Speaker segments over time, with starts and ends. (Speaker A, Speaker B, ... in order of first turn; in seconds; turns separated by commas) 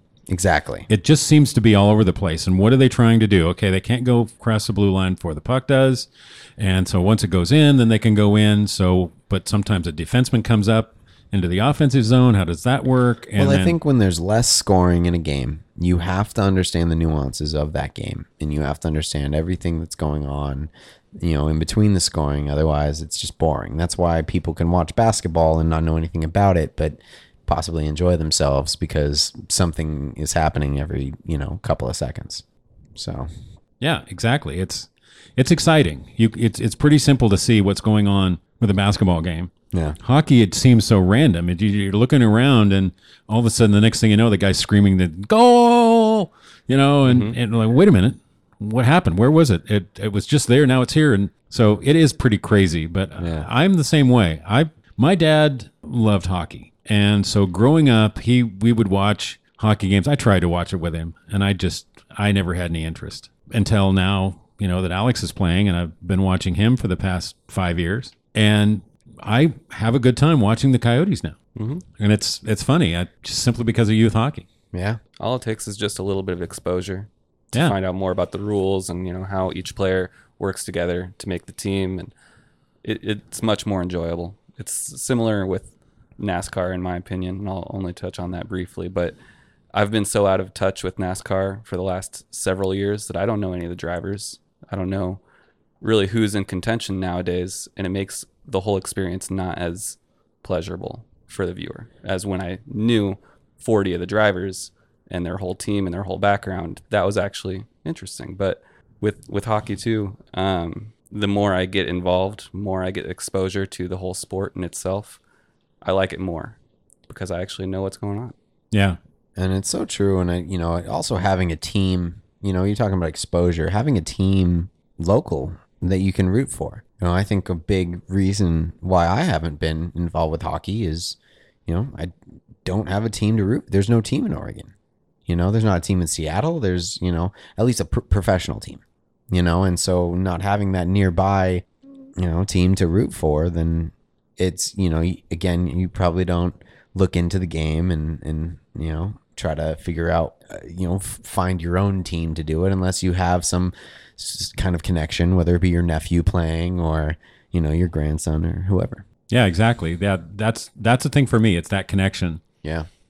Speaker A: 0.3-0.9, Speaker B: 0.9-13.8, Speaker A: 13.4-32.4, Speaker A: 32.9-33.3, Speaker B: 33.8-71.4, Speaker A: 39.7-40.0, Speaker A: 53.2-53.5, Speaker C: 71.5-71.8, Speaker B: 72.0-74.5, Speaker A: 74.7-75.0, Speaker C: 75.2-82.1, Speaker C: 82.8-89.2, Speaker C: 89.7-95.2, Speaker C: 95.8-115.2, Speaker C: 115.8-116.6, Speaker C: 117.1-118.3, Speaker B: 118.7-119.0, Speaker A: 119.3-132.1, Speaker A: 132.6-134.7, Speaker A: 135.3-141.6, Speaker A: 142.2-159.0, Speaker B: 159.3-162.4, Speaker A: 162.6-162.9